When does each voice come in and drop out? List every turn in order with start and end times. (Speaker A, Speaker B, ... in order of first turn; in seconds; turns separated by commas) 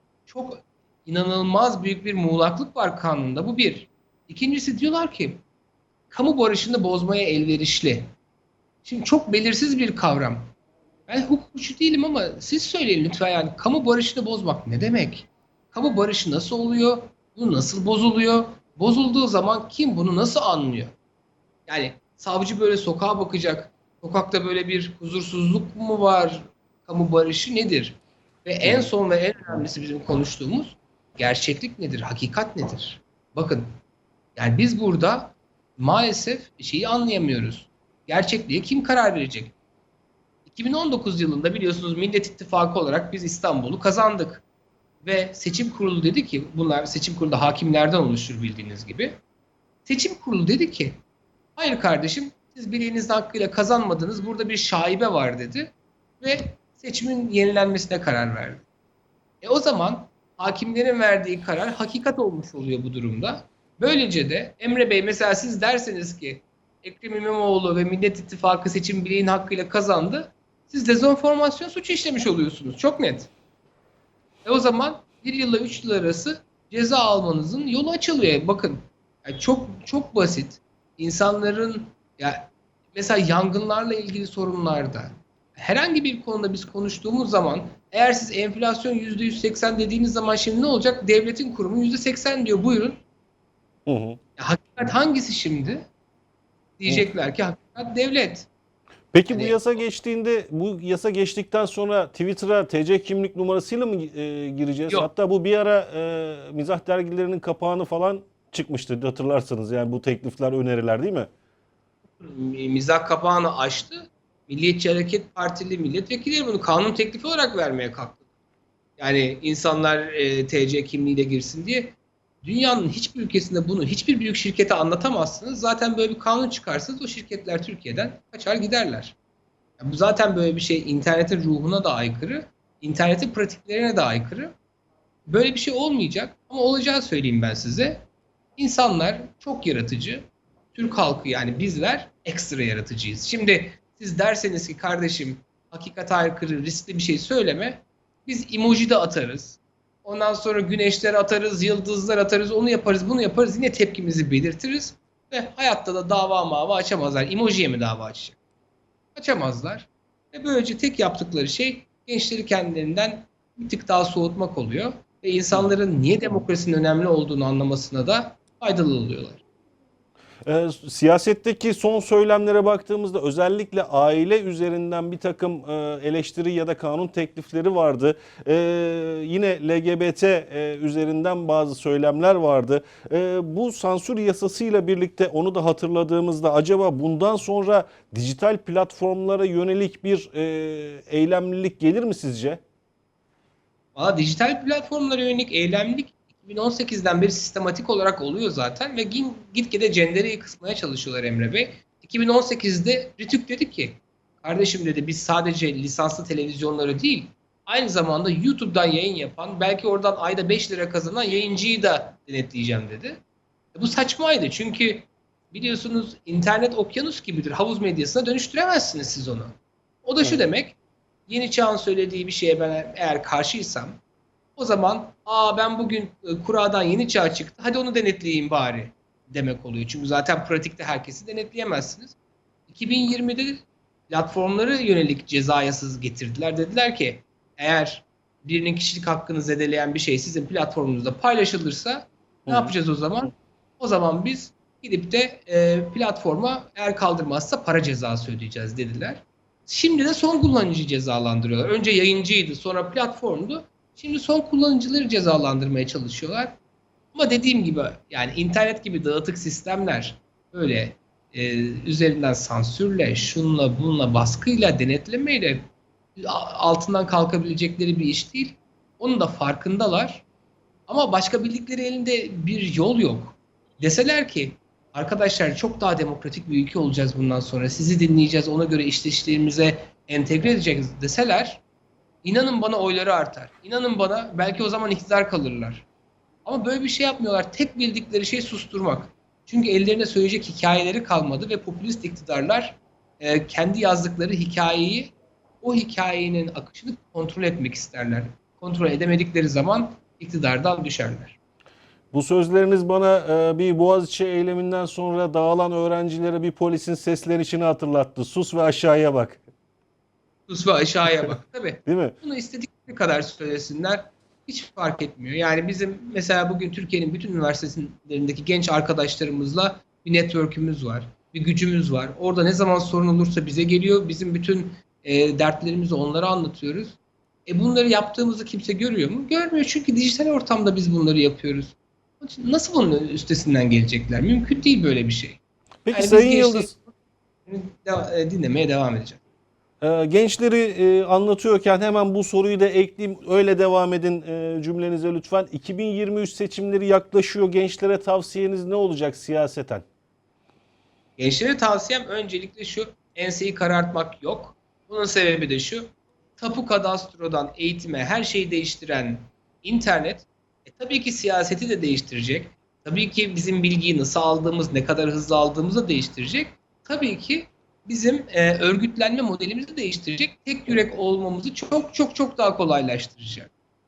Speaker A: 0.3-5.4, Speaker A: 6.1-8.1, Speaker A: 8.8-10.5, Speaker A: 11.1-20.9, Speaker A: 21.7-33.7, Speaker B: 28.6-28.9, Speaker A: 34.4-39.5, Speaker A: 40.5-44.4, Speaker A: 45.0-49.2, Speaker A: 49.9-51.0, Speaker A: 51.6-58.6, Speaker A: 59.4-73.3, Speaker A: 74.5-93.0, Speaker B: 93.9-94.2, Speaker A: 94.4-95.9, Speaker A: 96.8-98.5, Speaker B: 99.1-111.3, Speaker A: 99.3-99.6, Speaker A: 112.2-118.2, Speaker A: 119.0-129.2, Speaker A: 129.8-134.5, Speaker A: 135.3-138.1, Speaker A: 138.6-158.4, Speaker A: 159.2-169.4, Speaker B: 170.4-192.6, Speaker A: 193.9-213.2, Speaker A: 213.7-224.0, Speaker A: 224.6-232.2, Speaker A: 232.7-256.6, Speaker B: 242.5-242.7, Speaker A: 257.1-265.6, Speaker A: 266.2-270.2, Speaker A: 270.9-281.6, Speaker A: 282.2-285.9, Speaker A: 286.4-301.4, Speaker B: 302.1-309.4, Speaker A: 310.5-335.4, Speaker B: 311.9-312.1, Speaker B: 335.9-336.7, Speaker A: 335.9-336.9, Speaker A: 337.5-339.2, Speaker B: 339.8-349.9, Speaker A: 351.2-373.5